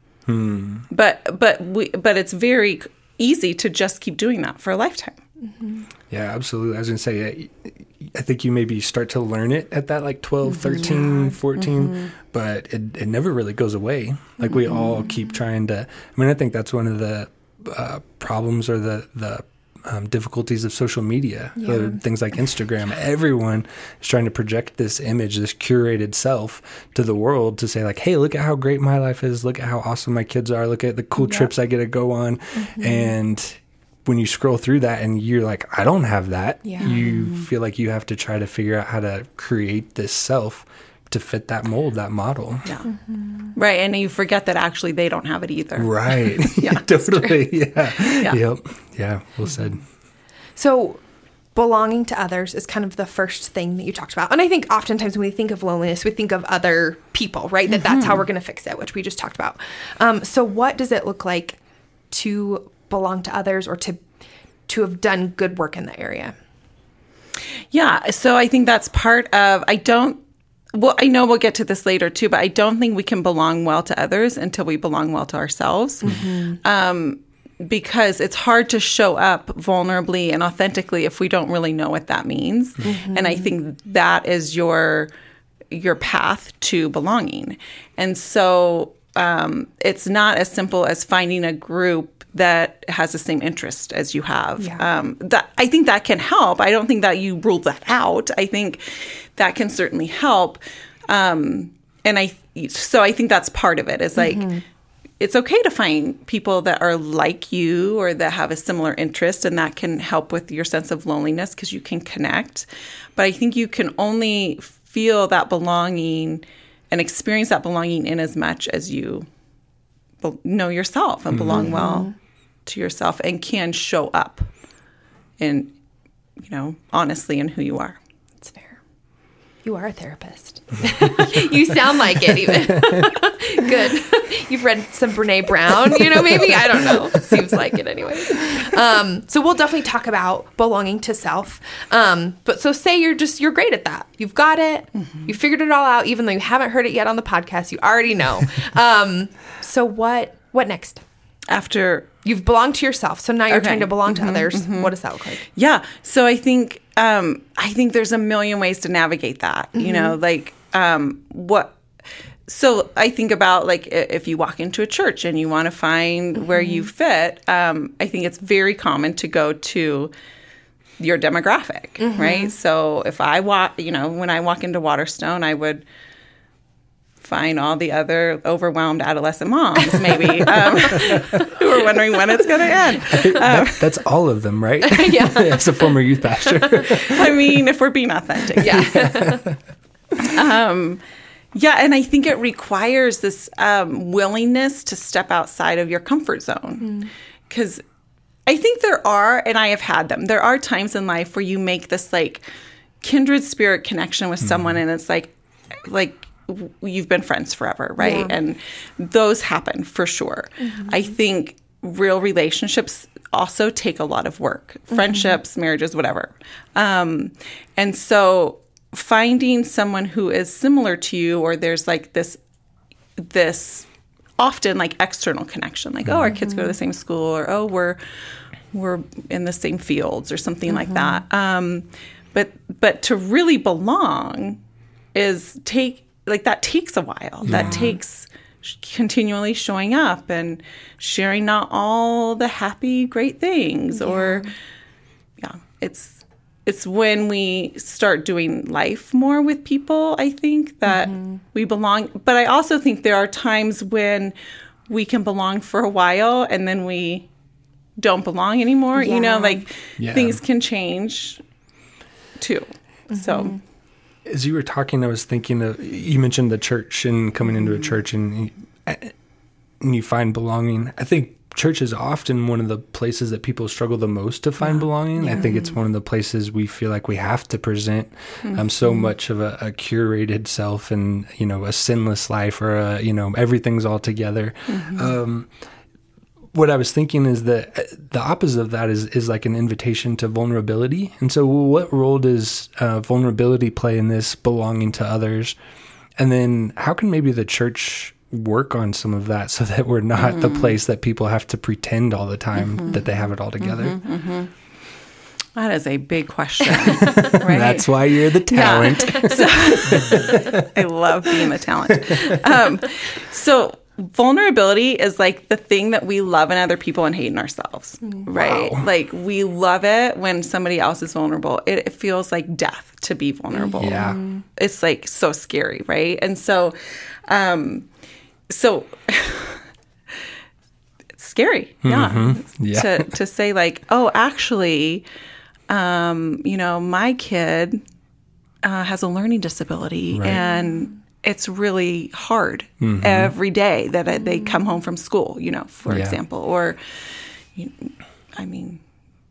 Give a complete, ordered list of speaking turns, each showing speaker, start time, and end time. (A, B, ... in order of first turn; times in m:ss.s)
0:00.2-0:00.9 A
0:00.9-0:05.2 B
0:05.5-0:05.8 C
0:06.1-0:42.7 A
0:10.7-0:11.0 B
0:11.0-0:11.2 C
0:11.5-0:12.1 B
0:21.6-0:22.0 C
0:31.2-0:31.5 C
0:32.6-0:33.1 C
0:36.6-0:37.0 C
0:36.9-0:37.4 B
0:42.8-0:43.5 C
0:43.5-0:47.4 B
0:45.8-0:49.8 A
0:48.1-0:48.4 B
0:50.6-0:51.0 C
0:51.5-1:01.6 C
0:57.7-0:58.2 B
1:02.1-1:04.0 C
1:04.7-1:06.3 C
1:07.7-1:10.2 B
1:10.7-1:25.1 B
1:16.0-1:16.6 C
1:22.8-1:23.5 C
1:25.7-1:44.5 B
1:34.6-1:34.8 C
1:44.2-1:44.6 C
1:45.2-1:59.3 B
2:00.2-2:02.1 B
2:01.3-2:01.7 A
2:01.5-2:02.1 C
2:02.6-2:04.5 B
2:05.4-2:05.7 B
2:06.4-2:08.0 B
2:08.4-2:08.8 C
2:09.6-2:31.0 C
2:12.6-2:13.1 A
2:25.0-2:25.3 B
2:31.5-2:32.1 B
2:32.2-2:35.4 C
2:33.5-2:41.8 B
2:39.7-2:40.2 C
2:42.5-2:50.1 B
2:46.5-2:46.9 C
2:51.0-2:55.8 B
2:52.0-2:52.5 C
2:57.2-3:03.9 B
3:00.6-3:01.5 C
3:03.1-3:07.6 A
3:04.8-3:05.9 C
3:06.5-3:06.8 C
3:06.9-3:09.1 B
3:08.5-3:09.4 C
3:08.6-3:09.6 A
3:10.2-3:11.0 B
3:11.5-3:17.8 B
3:16.8-3:17.1 C
3:18.4-3:22.4 B
3:23.0-3:42.4 B
3:24.4-3:24.8 A
3:28.0-3:28.4 C
3:30.6-3:31.1 C
3:34.9-3:35.4 C
3:43.2-3:43.9 B
3:44.4-3:48.0 B
3:46.0-3:46.3 A
3:46.3-3:46.7 C
3:48.7-3:54.6 B
3:50.7-3:51.2 C
3:55.1-4:04.5 B
3:57.4-3:58.0 A
4:03.9-4:04.5 C
4:05.4-4:14.3 B
4:10.9-4:11.4 C
4:14.9-4:17.3 B
4:18.0-4:21.4 B
4:18.9-4:19.6 C
4:20.0-4:20.4 A
4:22.4-4:23.6 B
4:23.1-4:23.6 C
4:24.2-4:29.1 A
4:29.8-4:45.5 A
4:35.2-4:35.6 C
4:38.4-4:38.7 B
4:44.7-4:45.2 B
4:46.5-4:55.6 A
4:56.2-5:04.0 A
5:00.2-5:00.8 B
5:02.6-5:03.0 B
5:03.6-5:04.5 B
5:05.5-5:26.8 B
5:06.8-5:10.7 A
5:09.9-5:10.5 C
5:11.9-5:12.4 A
5:18.3-5:18.8 A
5:23.5-5:24.4 C
5:23.8-5:24.2 A
5:27.3-5:27.8 B
5:28.5-5:30.2 B
5:31.2-5:35.0 B
5:31.8-5:33.1 A
5:35.7-5:37.8 B
5:38.6-5:46.8 B
5:40.1-5:40.4 A
5:42.8-5:43.3 A
5:45.9-5:46.2 A
5:47.5-5:48.8 B